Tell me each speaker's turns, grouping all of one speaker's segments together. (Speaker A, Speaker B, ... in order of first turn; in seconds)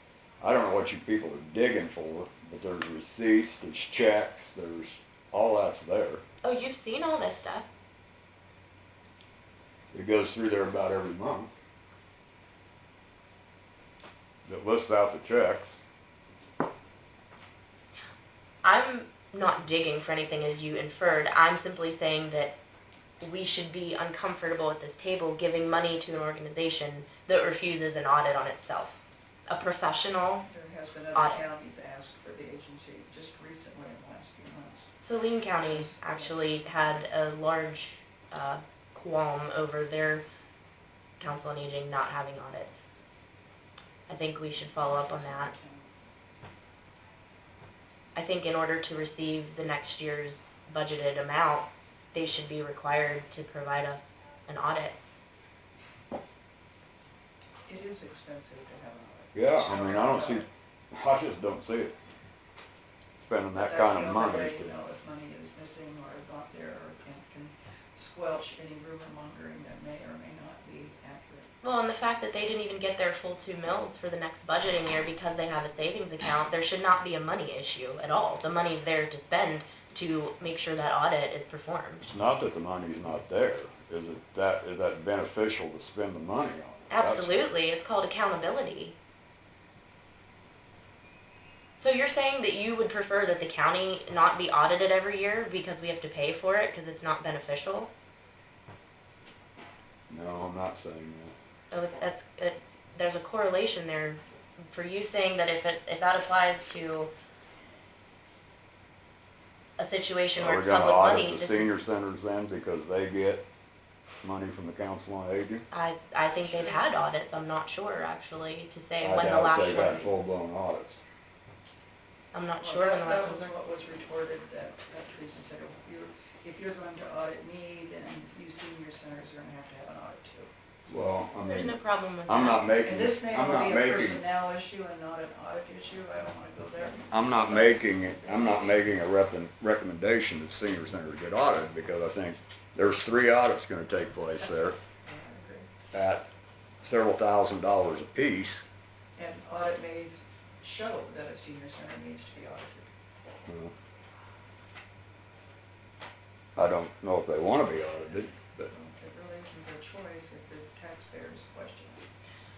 Speaker A: 0.4-6.2, 9.9-11.6, 14.5-15.8, 59.3-62.0, 63.3-64.7, 82.0-87.4, 100.1-101.3, 110.4-113.5, 114.2-115.6, 119.0-121.0, 130.9-134.2, 137.1-144.8, 145.9-146.3, 146.8-148.7, 153.5-153.7, 156.6-158.7
Speaker B: 6.4-7.7, 18.6-22.6, 23.2-29.0, 29.5-30.5, 31.1-31.4, 35.0-40.3, 41.2-42.8, 44.1-45.5, 48.1-55.0, 71.6-82.0, 86.9-89.0, 91.8-97.9, 101.7-104.2, 104.7-107.1, 109.8-111.7, 115.7-120.1, 122.3-123.5, 131.4-132.7
Speaker C: 30.5-35.0, 35.6-36.8, 44.5-45.9, 57.7-60.5, 63.5-71.5, 116.4-116.8, 122.6-130.5, 132.8-138.9, 145.0-145.7, 149.2-152.9, 158.7-162.0